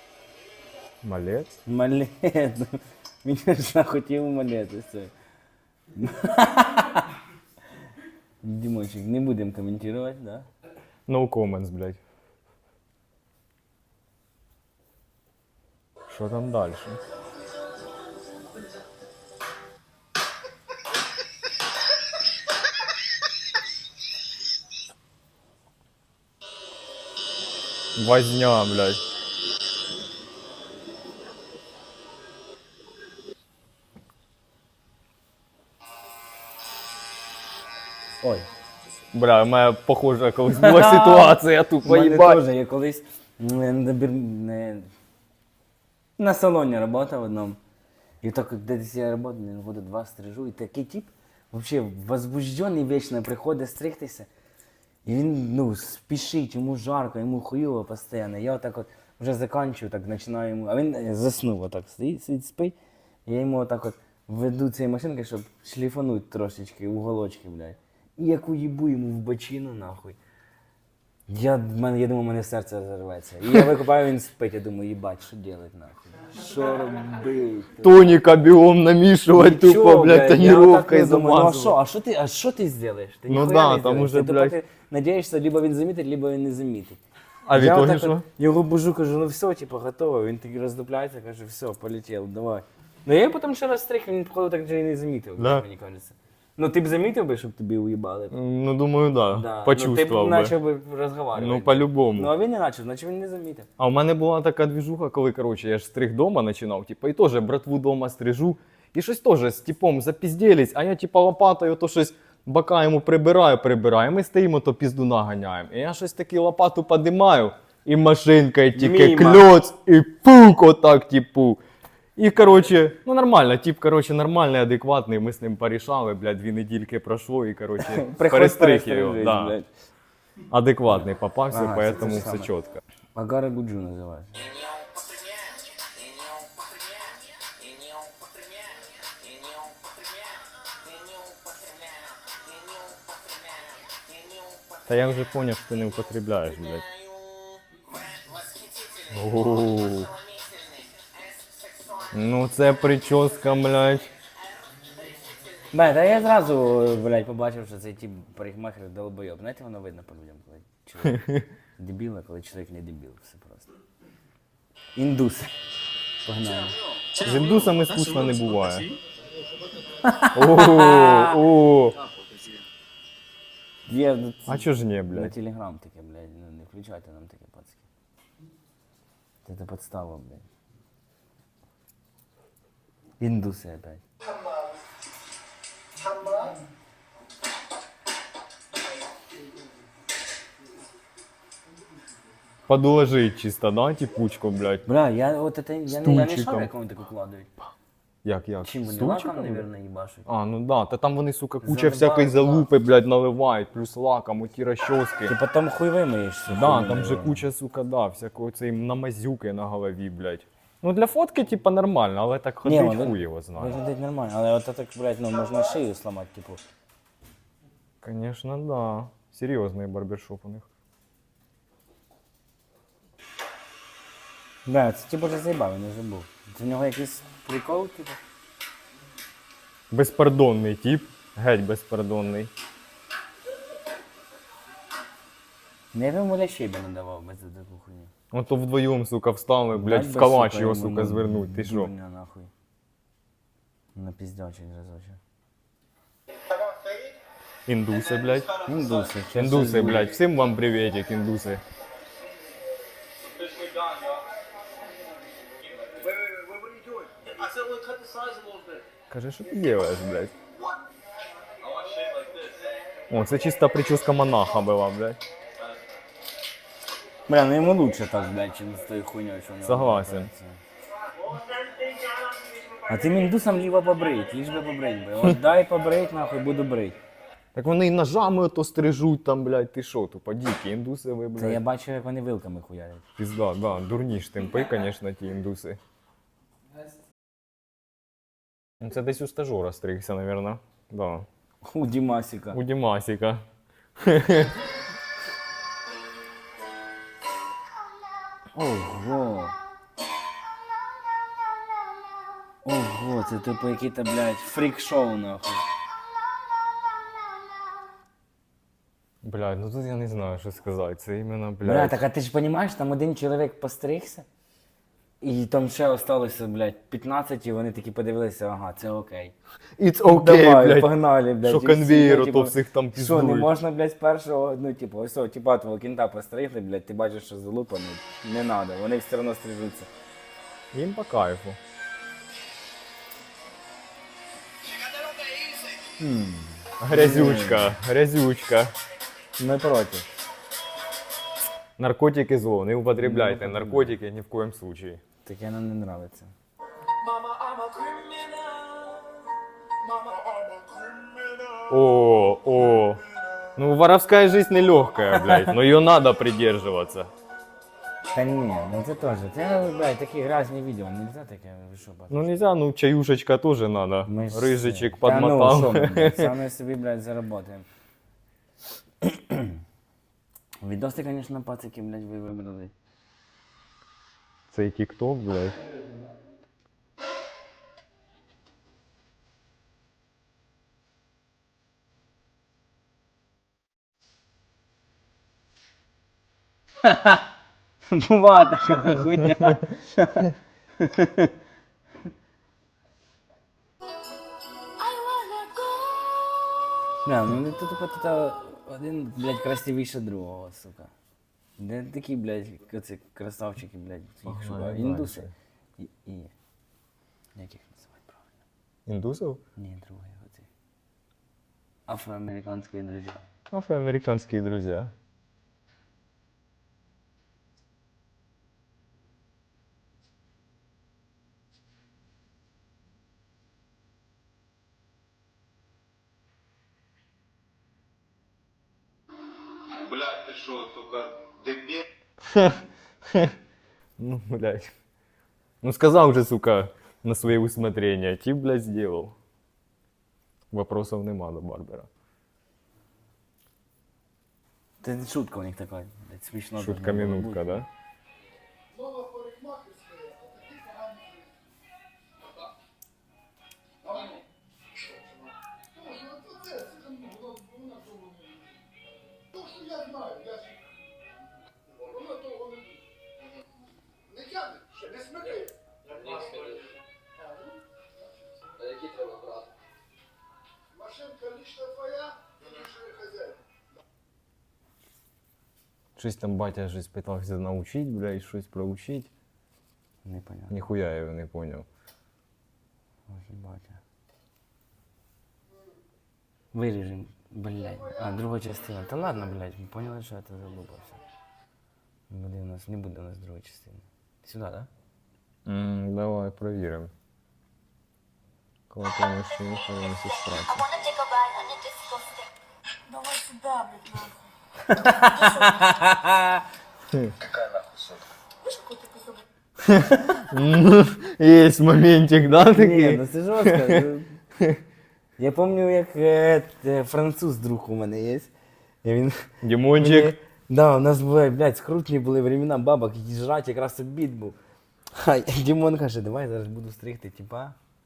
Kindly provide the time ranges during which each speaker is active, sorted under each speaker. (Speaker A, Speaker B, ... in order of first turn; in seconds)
Speaker A: 1.0-1.5, 11.1-12.0, 16.1-17.0, 28.0-29.0, 39.1-42.4, 77.8-81.8, 83.3-84.6, 87.5-88.3, 95.4-95.6, 98.3-100.5, 101.3-102.3, 103.8-121.6, 122.2-129.6, 130.5-132.8, 144.9-146.8, 149.1-150.1, 152.1-154.1, 161.0-161.5, 167.2-168.9, 170.3-172.0, 174.5-175.3, 192.7-194.9, 195.9-196.7, 198.2-199.6, 200.3-205.3, 206.5-213.8, 218.0-220.7, 229.9-232.5, 238.3-241.9, 247.7-248.6, 249.3-251.6, 259.1-260.3, 263.1-265.2, 269.6-270.3, 277.6-281.6, 283.2-285.8, 288.8-291.3, 292.5-293.4, 294.0-294.6, 309.2-312.0, 319.8-320.9, 321.4-323.5, 330.7-331.6, 336.8-338.7, 341.8-345.0, 351.7-353.0, 353.6-357.1, 362.1-366.3, 374.5-375.6, 404.2-405.3, 408.9-409.4, 413.5-414.9, 432.3-432.6, 434.0-434.7, 435.6-439.1, 440.5-441.9, 446.6-447.7, 476.0-479.1, 480.5-481.7, 495.4-496.9, 498.7-500.6, 510.3-513.8, 519.4-520.1
Speaker B: 1.7-5.1, 5.9-7.1, 8.4-10.5, 40.5-44.9, 46.2-47.6, 48.2-54.3, 55.0-62.8, 63.3-70.2, 71.3-78.2, 79.3-87.0, 87.5-98.3, 99.3-103.7, 118.7-119.5, 127.8-129.7, 131.5-132.5, 133.2-134.6, 155.7-161.2, 161.8-163.7, 165.0-165.5, 166.2-166.8, 170.0-171.4, 173.9-177.8, 179.4-180.4, 183.2-184.0, 194.9-197.5, 198.6-200.3, 201.6-202.7, 205.3-207.4, 212.7-216.6, 224.7-228.2, 235.9-238.1, 239.7-242.5, 243.9-245.2, 248.6-250.2, 267.3-270.6, 272.8-277.0, 281.4-283.0, 291.6-292.6, 298.5-299.6, 302.6-305.6, 311.6-314.3, 315.2-319.3, 320.1-329.9, 336.0-337.8, 339.4-340.1, 343.0-343.9, 345.2-346.3, 347.3-348.3, 355.1-355.6, 358.1-362.3, 364.1-367.7, 369.0-369.6, 370.6-372.7, 386.8-387.2, 387.9-391.3, 397.0-400.9, 401.6-406.3, 407.3-408.3, 409.6-410.5, 411.9-413.2, 444.8-447.6, 480.0-480.6, 483.1-483.8, 486.5-491.0, 492.1-494.7, 504.7-506.4, 509.6-510.2, 512.5-514.1, 515.2-518.3, 518.8-524.4, 524.9-527.6
Speaker C: 186.0-186.6, 246.5-247.1, 261.7-262.5, 429.7-431.8, 453.9-454.2, 464.8-465.4, 466.0-466.7, 472.4-472.7
Speaker D: 394.8-396.4, 499.1-502.3, 502.9-504.3, 505.2-505.5, 508.4-509.2